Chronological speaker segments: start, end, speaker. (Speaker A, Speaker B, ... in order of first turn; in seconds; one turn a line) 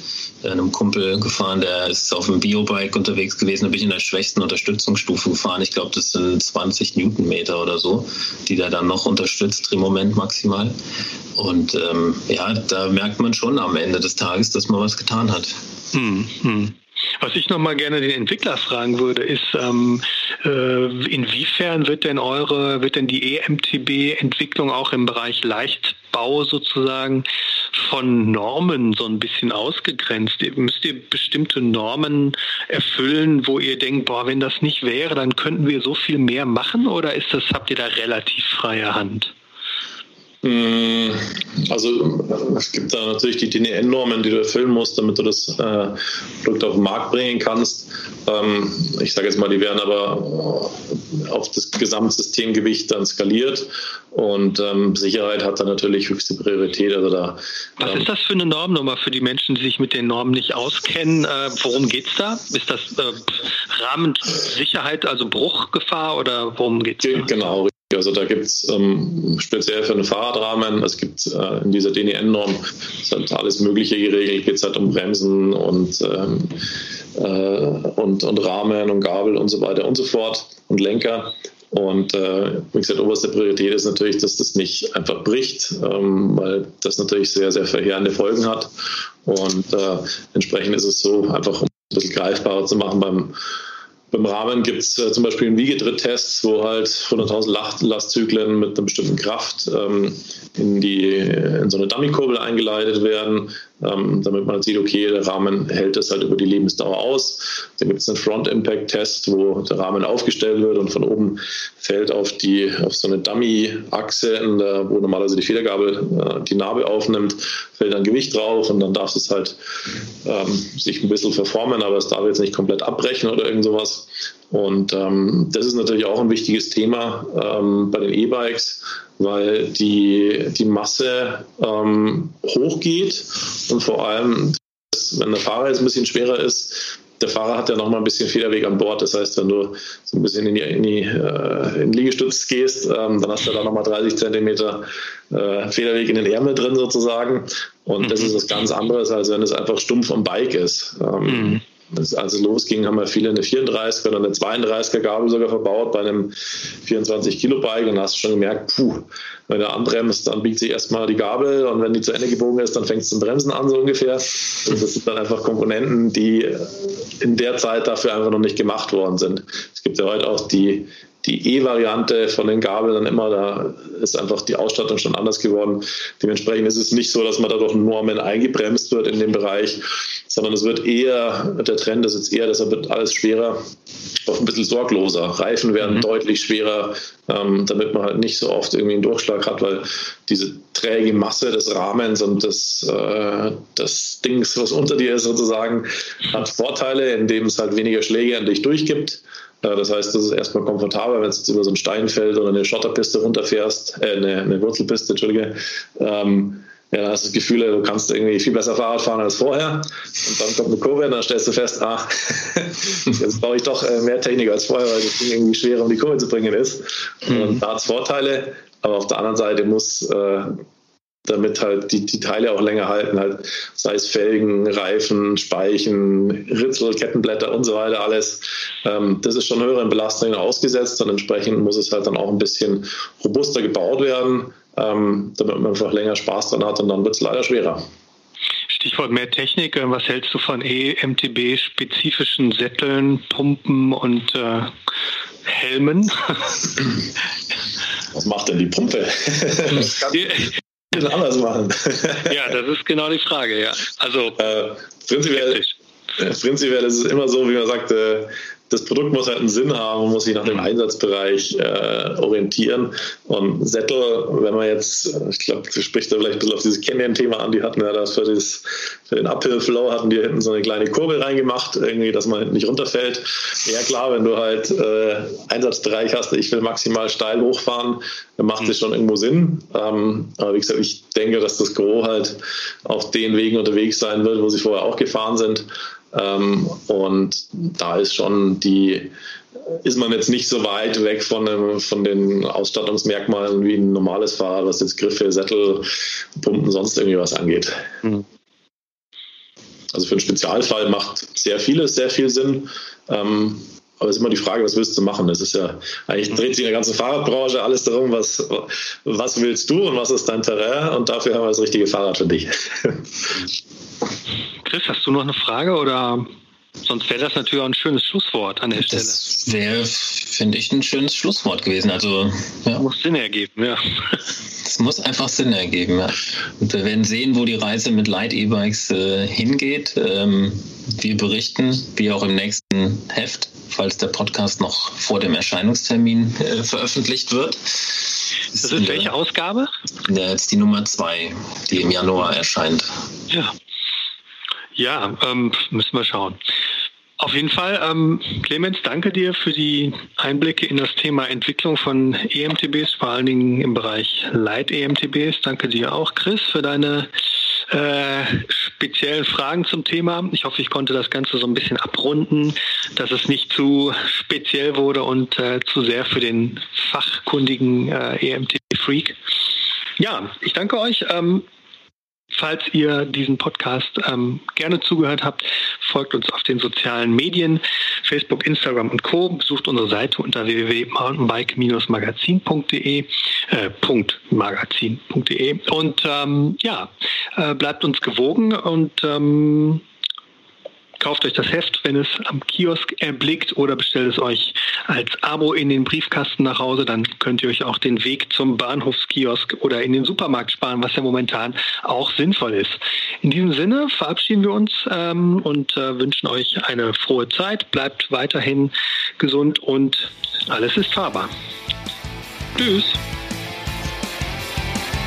Speaker A: 0.4-10.7
Speaker A: 11.3-15.6
Speaker B: 15.9-39.3
Speaker C: 40.4-58.1
Speaker B: 57.8-67.3
Speaker C: 67.0-76.6
Speaker C: 77.1-88.7
Speaker C: 89.2-93.4
Speaker C: 94.1-119.6
Speaker C: 120.2-183.6
Speaker B: 151.3-151.6
Speaker C: 184.2-220.6
Speaker C: 221.2-237.8
Speaker B: 238.7-244.8
Speaker B: 245.4-246.6
Speaker C: 248.1-252.3
Speaker B: 252.3-254.4
Speaker C: 254.4-255.6
Speaker B: 255.3-255.7
Speaker C: 256.2-289.1
Speaker C: 289.7-297.9
Speaker C: 299.9-313.5
Speaker B: 314.6-316.3
Speaker B: 316.8-319.2
Speaker A: 318.9-322.8
Speaker B: 322.8-324.2
Speaker A: 324.6-339.1
Speaker B: 338.6-339.7
Speaker A: 340.0-342.9
Speaker B: 343.3-343.5
Speaker B: 344.7-346.4
Speaker B: 347.2-357.1
Speaker B: 357.7-369.2
Speaker B: 370.0-371.4
Speaker B: 372.3-389.8
Speaker B: 391.0-411.3
Speaker B: 412.6-413.0